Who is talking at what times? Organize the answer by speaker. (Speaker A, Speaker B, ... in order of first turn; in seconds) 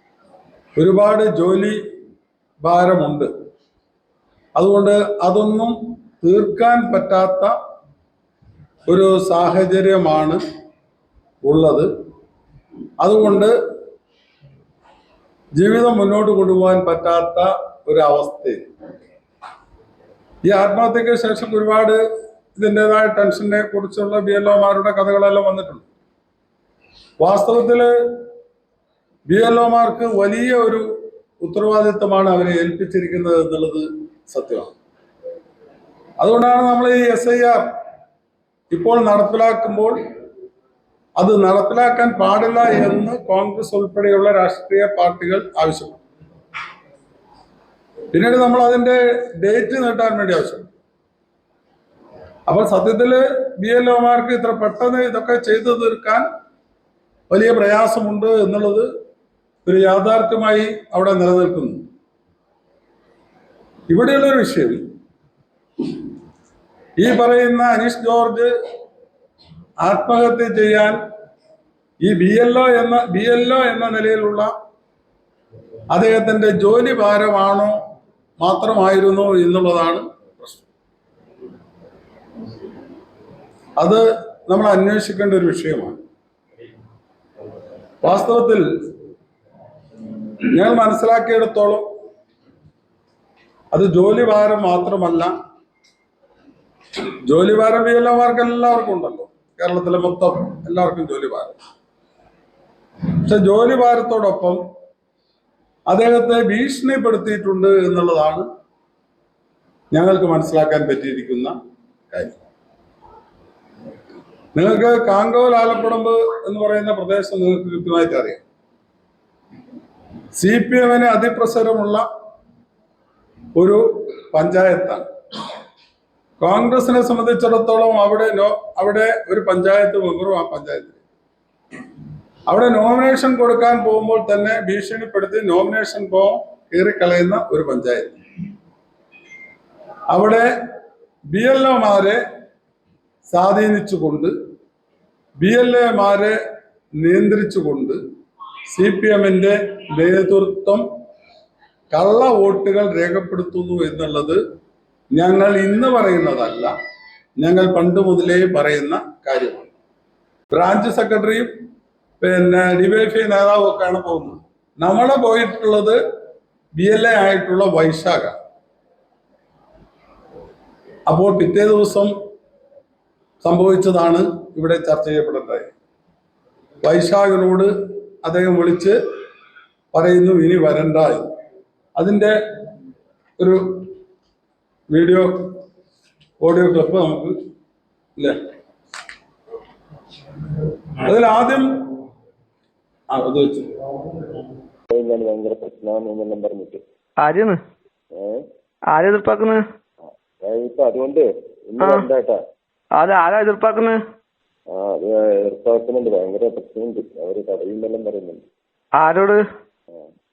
Speaker A: 0.8-1.8, 2.6-3.3, 4.6-7.5, 8.9-10.4, 11.4-11.9, 13.0-13.5, 15.6-18.6, 20.4-22.0, 22.6-25.9, 27.2-27.9, 29.3-30.9, 31.4-34.7, 36.2-37.6, 38.7-40.0, 41.2-46.0, 48.1-50.7, 52.5-56.2, 57.3-58.9, 59.6-61.8, 63.9-64.8, 67.0-68.5, 69.8-71.0, 72.0-74.5, 75.9-77.8, 78.4-80.7, 83.8-86.0, 88.0-88.7, 90.5-91.8, 93.7-95.3, 97.2-101.6, 103.2-104.6, 105.9-108.5, 109.9-111.5, 114.5-118.4, 120.3-122.0, 123.5-125.0, 126.4-131.0, 132.5-138.2, 140.1-140.5, 141.3-142.2, 143.3-144.3, 145.4-146.3, 147.0-148.0, 148.7-150.8, 151.9-154.4, 155.2-156.7, 157.4-159.7, 160.5-161.5, 162.2-166.0, 166.8-168.3, 171.1-172.1, 173.4-175.7, 176.8-177.7, 178.2-179.0, 179.9-181.3, 182.0-182.3, 184.9-185.3, 186.4-187.3, 191.0-191.7, 193.1-193.7
Speaker B: 194.9-196.8, 198.2-198.4, 200.4-202.4, 204.7-208.4
Speaker C: 197.2-197.6, 198.9-199.6, 201.8-202.1, 203.0-204.0, 209.0-209.4